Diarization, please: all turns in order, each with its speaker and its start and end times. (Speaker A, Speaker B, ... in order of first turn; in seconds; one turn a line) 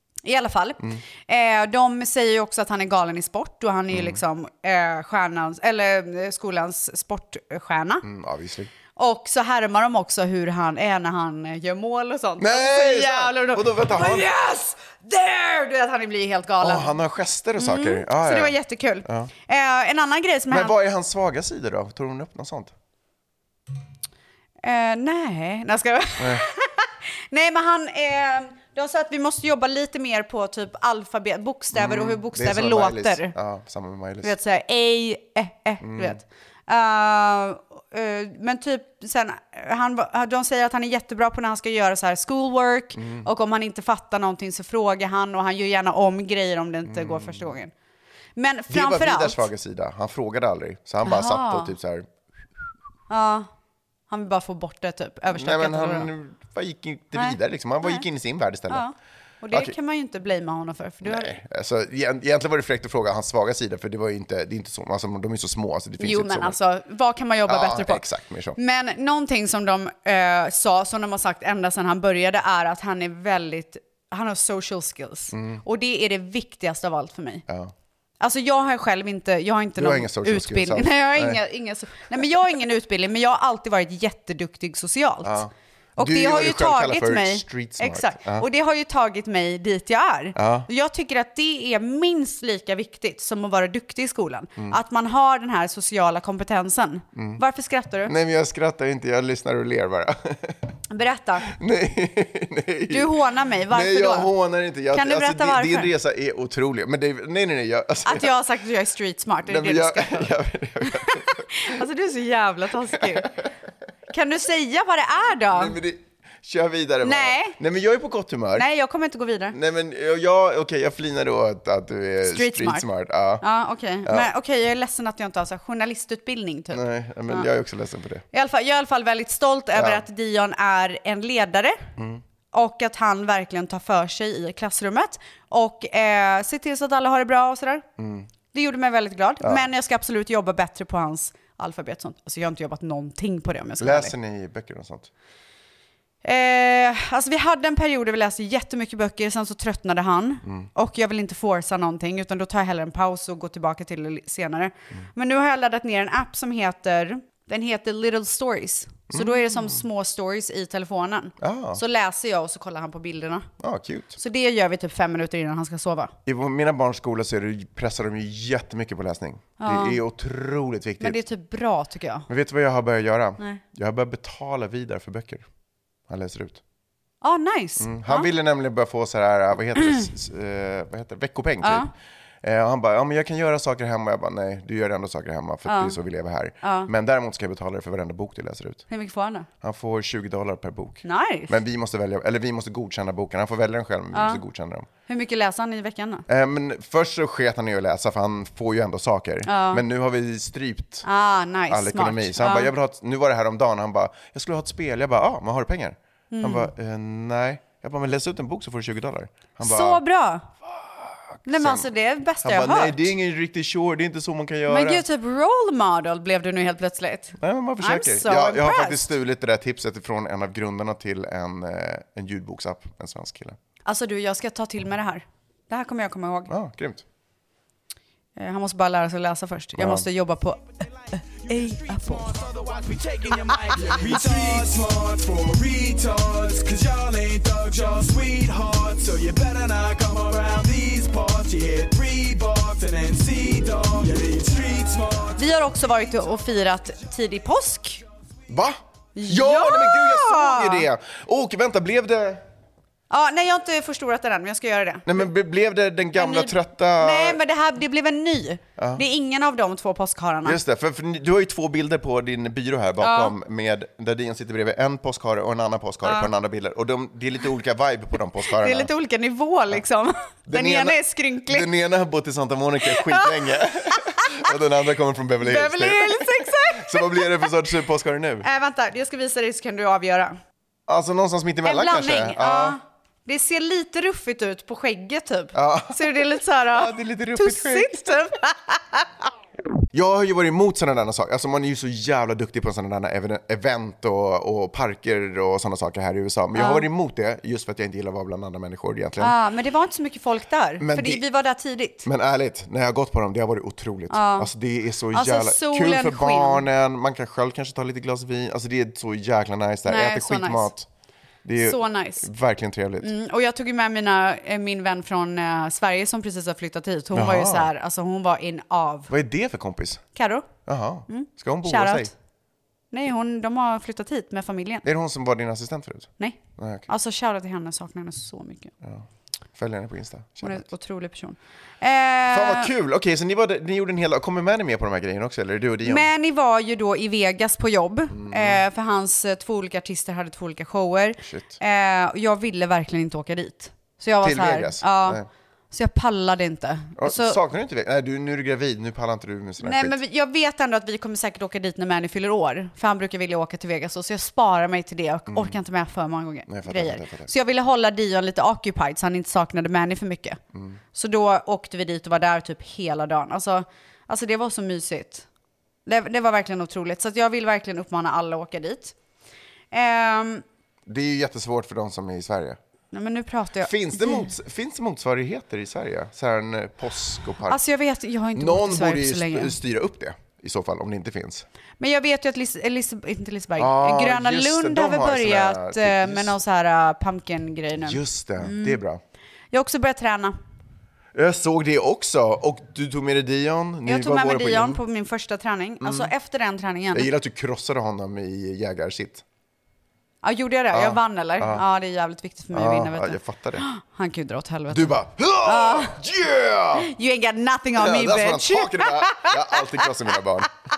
Speaker A: 0.2-8.0
Speaker B: 3.9-4.2
Speaker B: 8.0-8.7
Speaker A: 8.9-16.9
Speaker B: 12.4-14.3
Speaker B: 16.6-19.3
Speaker A: 17.6-20.7
Speaker B: 20.5-22.7
Speaker A: 24.6-33.3
Speaker B: 26.2-26.4
Speaker B: 31.7-34.3
Speaker A: 34.2-47.7
Speaker B: 35.8-36.2
Speaker B: 43.0-43.3
Speaker B: 46.9-47.5
Speaker A: 48.4-49.5
Speaker B: 48.7-52.1
Speaker A: 51.0-51.7
Speaker A: 53.1-53.5
Speaker A: 54.1-56.1
Speaker B: 55.3-58.9
Speaker A: 57.1-58.0
Speaker A: 58.7-61.4
Speaker B: 61.0-66.6
Speaker A: 66.0-68.0
Speaker B: 67.5-68.6
Speaker A: 68.6-77.4
Speaker B: 75.3-75.6
Speaker B: 77.5-77.7
Speaker A: 78.2-85.4
Speaker B: 79.8-81.4
Speaker B: 85.2-88.5
Speaker A: 86.0-98.1
Speaker B: 90.3-90.7
Speaker B: 97.1-97.4
Speaker B: 98.0-100.7
Speaker A: 100.9-101.5
Speaker B: 101.5-103.2
Speaker A: 102.9-104.3
Speaker B: 103.7-108.3
Speaker A: 104.9-105.9
Speaker A: 108.0-110.3
Speaker B: 109.5-111.8
Speaker A: 110.8-113.3
Speaker B: 112.9-113.5
Speaker A: 114.1-115.8
Speaker B: 115.5-118.7
Speaker A: 117.0-117.6
Speaker A: 118.5-119.6
Speaker B: 119.5-123.4
Speaker A: 122.2-122.8
Speaker A: 123.4-127.5
Speaker B: 126.7-128.2
Speaker A: 128.3-131.8
Speaker B: 129.7-130.0
Speaker A: 132.5-137.8
Speaker B: 138.0-138.3
Speaker A: 138.5-144.1
Speaker B: 139.4-139.7
Speaker B: 143.8-145.1
Speaker A: 146.2-163.5
Speaker B: 159.1-159.8
Speaker B: 161.4-161.8
Speaker B: 163.6-164.2
Speaker A: 164.2-166.1
Speaker B: 166.2-171.2
Speaker A: 169.6-170.0
Speaker A: 171.0-172.3
Speaker B: 172.3-175.4
Speaker B: 176.1-176.6
Speaker A: 177.2-178.3
Speaker B: 177.8-181.9
Speaker A: 181.6-181.9
Speaker B: 182.4-188.8
Speaker A: 185.7-186.0
Speaker A: 186.6-186.9
Speaker A: 188.9-189.5
Speaker B: 189.6-194.9
Speaker A: 191.0-191.6
Speaker A: 194.1-194.4
Speaker A: 195.1-196.2
Speaker B: 196.3-201.1
Speaker A: 199.4-199.8
Speaker A: 201.0-202.7
Speaker B: 201.7-210.0
Speaker A: 206.3-206.7
Speaker A: 209.6-210.5
Speaker B: 210.7-211.9
Speaker A: 211.4-213.1
Speaker B: 212.4-215.0
Speaker A: 214.7-219.1
Speaker B: 217.4-223.6
Speaker A: 223.8-226.5
Speaker B: 226.5-227.0
Speaker A: 228.4-232.4
Speaker B: 229.8-230.1
Speaker C: 231.6-245.4
Speaker A: 234.0-234.6
Speaker A: 245.3-248.0
Speaker B: 248.5-252.4
Speaker A: 249.1-250.9
Speaker A: 253.1-255.2
Speaker B: 255.1-257.4
Speaker A: 256.1-260.6
Speaker B: 258.8-259.0
Speaker B: 260.4-268.9
Speaker A: 263.0-263.3
Speaker A: 268.5-271.7
Speaker B: 270.5-278.5
Speaker A: 272.8-274.3
Speaker A: 275.4-277.5
Speaker A: 278.4-280.4
Speaker B: 280.9-282.8
Speaker A: 281.6-289.1
Speaker B: 285.5-288.1
Speaker B: 289.9-299.4
Speaker A: 296.5-296.9
Speaker A: 299.2-302.1
Speaker B: 300.8-301.2
Speaker B: 302.0-310.9
Speaker A: 304.1-304.5
Speaker A: 305.1-306.6
Speaker A: 309.9-310.7
Speaker B: 311.4-313.1
Speaker A: 311.6-312.3
Speaker A: 313.0-319.1
Speaker B: 317.1-317.7
Speaker B: 319.1-320.0
Speaker A: 320.1-320.5
Speaker B: 320.6-322.1
Speaker A: 321.1-322.1
Speaker A: 322.9-324.8
Speaker B: 324.8-326.9
Speaker A: 326.2-328.7
Speaker B: 329.6-330.6
Speaker A: 330.4-332.7
Speaker B: 332.3-336.1
Speaker A: 335.8-347.4
Speaker B: 338.1-338.6
Speaker B: 341.2-341.6
Speaker B: 344.2-345.3
Speaker B: 347.0-350.0
Speaker A: 349.6-360.4
Speaker B: 355.3-355.6
Speaker B: 356.5-357.3
Speaker A: 360.9-365.2
Speaker A: 365.9-368.9
Speaker A: 369.7-370.4
Speaker B: 370.9-372.6
Speaker A: 372.9-374.3
Speaker B: 373.6-377.6
Speaker A: 377.5-379.6
Speaker B: 378.3-381.4
Speaker A: 381.8-388.8
Speaker B: 383.6-386.4
Speaker B: 387.8-389.0
Speaker A: 389.5-390.3
Speaker B: 391.1-394.8
Speaker A: 393.9-397.1
Speaker B: 395.8-396.1
Speaker B: 396.9-399.2
Speaker A: 400.2-406.0
Speaker B: 400.7-401.6
Speaker B: 402.5-403.6
Speaker B: 404.7-406.9
Speaker A: 406.8-409.9
Speaker B: 407.8-410.5